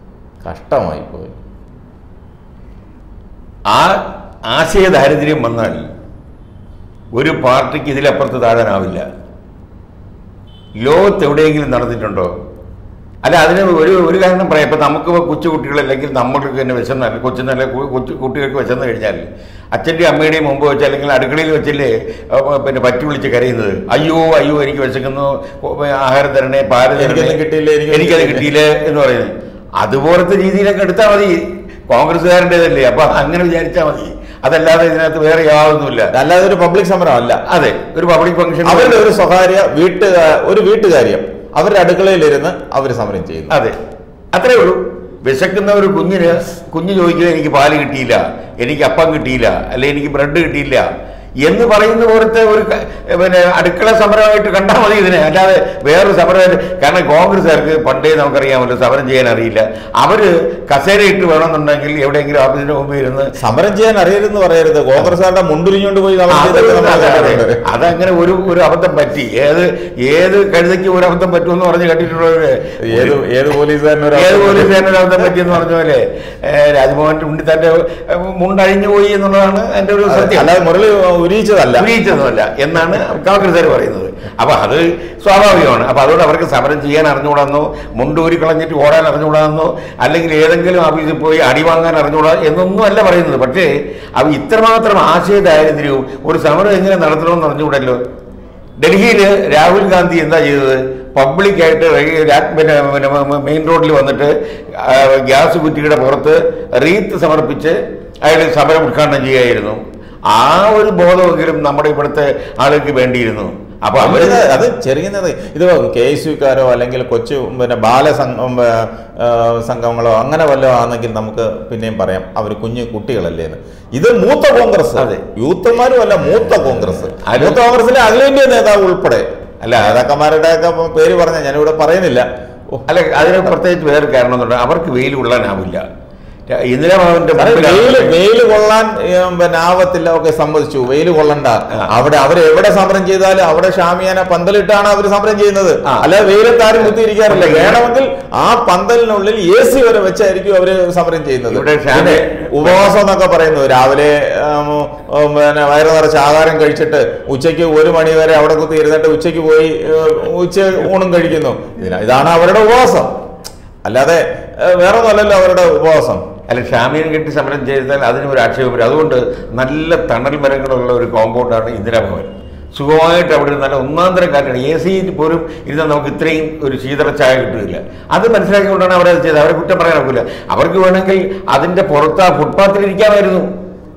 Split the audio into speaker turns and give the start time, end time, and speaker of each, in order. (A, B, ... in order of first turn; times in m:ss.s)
0:00.4-0:01.4 A
0:03.7-0:04.0 B
0:04.5-0:05.8 B
0:07.1-0:09.0 B
0:10.8-0:12.3 B
0:13.2-0:36.1 B
0:26.9-0:28.5 A
0:36.1-0:37.4 A
0:37.4-0:39.1 B
0:38.6-0:43.6 A
0:43.5-0:43.8 B
0:44.3-0:50.9 B
0:51.4-1:03.3 B
1:03.4-1:07.6 A
1:06.3-1:13.2 B
1:12.9-1:14.9 A
1:14.1-1:20.5 B
1:20.0-1:21.9 A
1:21.7-1:38.0 B
1:38.8-1:54.5 B
1:54.0-2:13.5 A
2:05.0-2:05.2 B
2:07.2-2:07.6 B
2:09.6-2:10.0 B
2:12.9-2:15.8 B
2:16.5-2:18.2 B
2:17.4-2:43.1 A
2:27.3-2:27.8 B
2:31.5-2:32.9 B
2:43.8-2:46.2 A
2:46.5-3:03.5 B